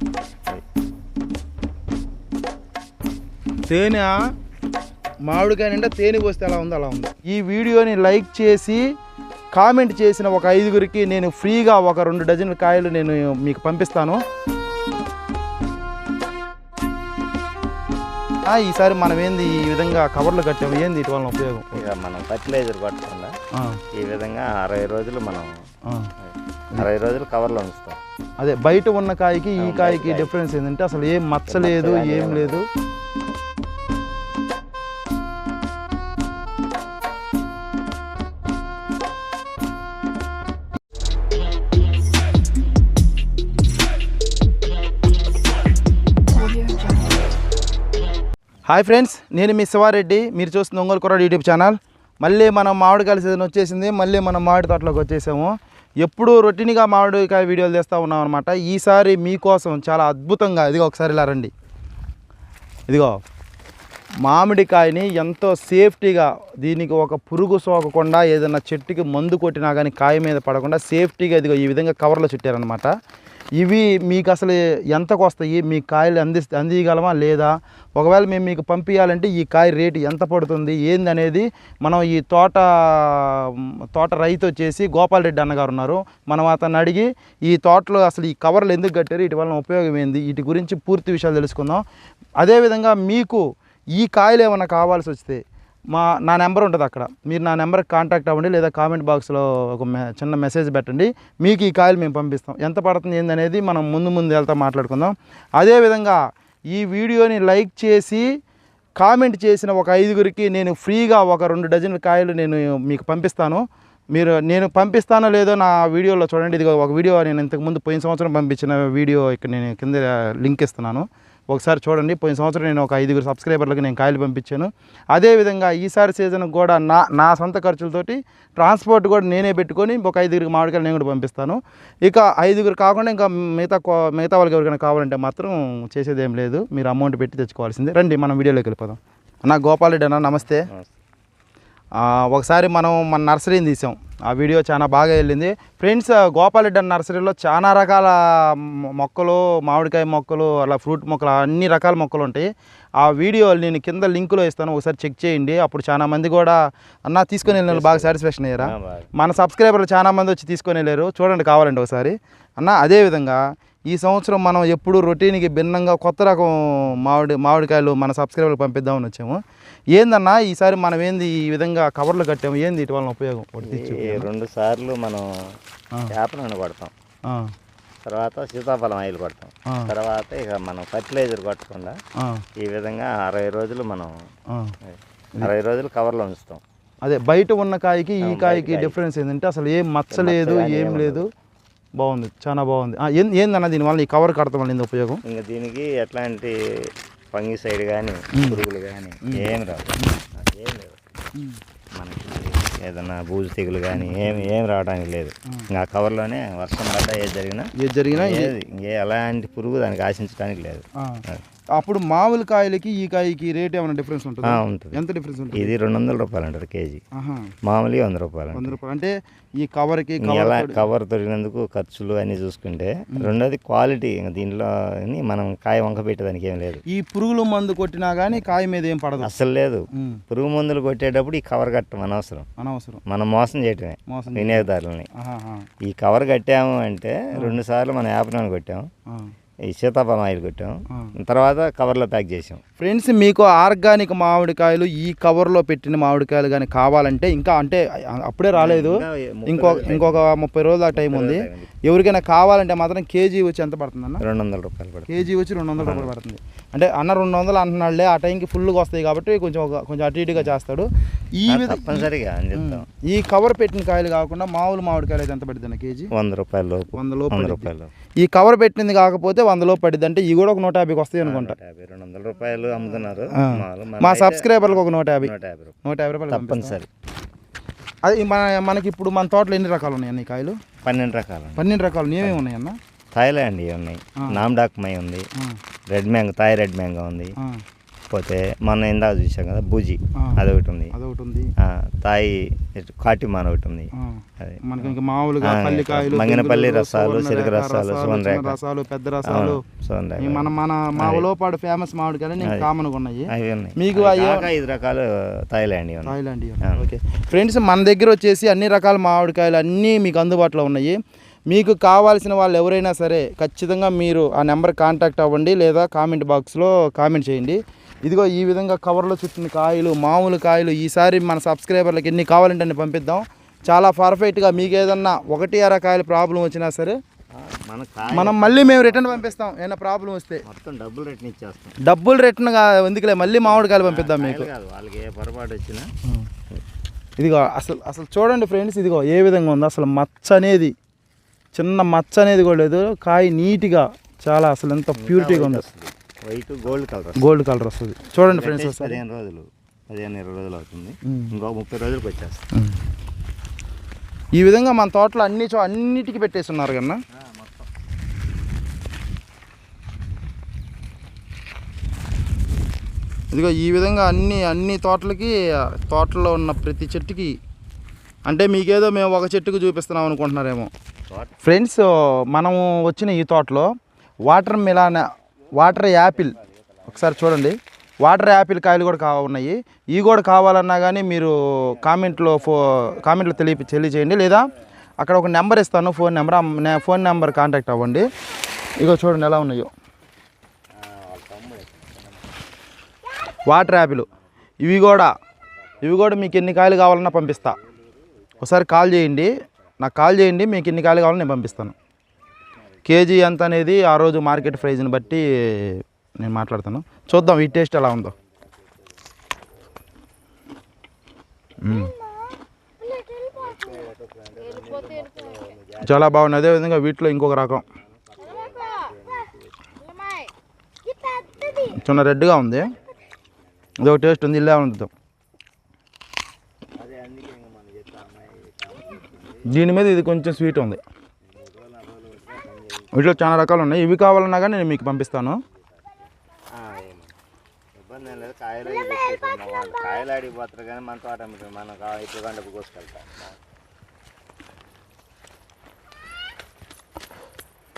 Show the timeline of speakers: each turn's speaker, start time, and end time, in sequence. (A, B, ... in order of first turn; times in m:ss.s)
0:03.7-0:04.2 A
0:05.3-0:08.8 A
0:09.5-0:14.2 A
0:18.4-0:21.7 A
0:21.7-0:23.4 B
0:24.0-0:25.5 B
0:26.2-0:28.0 B
0:28.4-0:32.7 A
0:29.6-0:30.3 B
0:31.5-0:32.6 B
0:48.7-1:01.5 A
1:02.9-1:03.2 A
1:04.2-1:12.9 A
1:13.6-1:31.8 A
1:32.4-1:33.4 A
1:34.0-1:35.4 A
1:35.9-1:46.2 A
1:46.7-1:48.3 A
1:49.0-2:20.7 A
2:20.7-2:21.0 B
2:22.0-2:32.5 A
2:33.0-2:49.4 A
2:37.4-2:39.1 B
2:50.0-2:54.3 A
2:53.7-2:55.3 B
2:56.1-2:56.9 B
2:58.0-3:02.0 B
3:02.6-3:04.1 B
3:04.9-3:06.6 B
3:07.0-3:11.3 A
3:08.2-3:09.0 B
3:10.1-3:11.2 B
3:12.0-3:15.2 A
3:15.2-3:21.0 B
3:18.4-3:18.6 A
3:19.3-3:20.2 A
3:21.4-3:21.6 A
3:22.0-3:31.4 B
3:23.9-3:24.5 A
3:27.8-3:28.5 A
3:31.8-3:35.7 A
3:34.4-3:35.0 B
3:35.5-3:37.0 B
3:37.2-3:37.5 A
3:37.6-3:38.8 B
3:38.5-3:40.8 A
3:40.2-3:46.8 B
3:46.9-3:49.3 A
3:49.2-3:52.5 B
3:49.9-3:50.2 A
3:52.6-3:53.0 A
3:53.1-3:55.1 B
3:54.1-3:55.6 A
3:55.9-3:58.9 B
3:59.7-4:02.6 B
4:02.8-4:14.2 A
4:08.6-4:10.3 B
4:10.9-4:11.7 B
4:14.2-4:15.1 B
4:15.1-4:26.1 A
4:15.8-4:16.1 B
4:21.5-4:22.9 B
4:26.1-4:27.9 B
4:27.0-4:27.7 A
4:28.2-4:31.6 A
4:31.2-4:35.8 B
4:33.3-4:35.3 A
4:35.8-4:36.8 A
4:36.3-4:36.9 B
4:38.0-4:40.6 A
4:40.8-4:41.7 B
4:41.6-4:42.8 A
4:43.2-4:45.3 B
4:45.9-4:47.3 B
4:48.1-4:50.9 B
4:50.9-4:51.5 A
4:51.6-4:58.6 B
4:54.0-4:59.6 A
4:59.2-5:01.3 B
5:00.2-5:04.5 A
5:02.4-5:02.7 B
5:03.3-5:06.9 B
5:06.0-5:11.0 A
5:11.5-5:27.0 A
5:27.4-5:29.4 B
5:28.1-5:30.4 A
5:30.4-5:31.8 B
5:31.8-5:34.5 A
5:33.2-5:35.9 B
5:37.2-5:40.8 A
5:41.6-5:45.6 A
5:45.0-5:47.3 B
5:47.2-5:49.0 A
5:48.3-5:52.4 B
5:51.1-5:51.3 A
5:54.4-5:57.0 A
5:57.2-5:57.7 B
6:03.3-6:07.4 A
6:08.3-6:10.7 A
6:11.1-6:11.4 B
6:11.4-6:13.7 A
6:14.3-6:16.4 A
6:16.1-6:17.2 B
6:16.9-6:28.1 A
6:21.6-6:23.7 B
6:28.8-6:29.7 A
6:30.8-6:32.3 B
6:33.5-6:34.1 A
6:34.6-6:35.1 A
6:35.6-6:38.4 B
6:35.8-6:37.6 A
6:38.4-6:41.7 A
6:42.8-6:48.1 A
6:44.5-6:44.9 B
6:47.3-6:49.3 B
6:51.6-6:52.0 A
6:53.2-6:56.5 B
6:55.8-6:57.7 A
6:57.7-6:59.8 B
7:01.1-7:02.0 B
7:01.6-7:02.7 A
7:02.7-7:04.2 B
7:03.8-7:04.9 A
7:06.7-7:09.6 B
7:09.5-7:10.8 A
7:11.3-7:13.1 B
7:12.9-7:15.4 A
7:16.6-7:17.2 B
7:17.8-7:23.4 B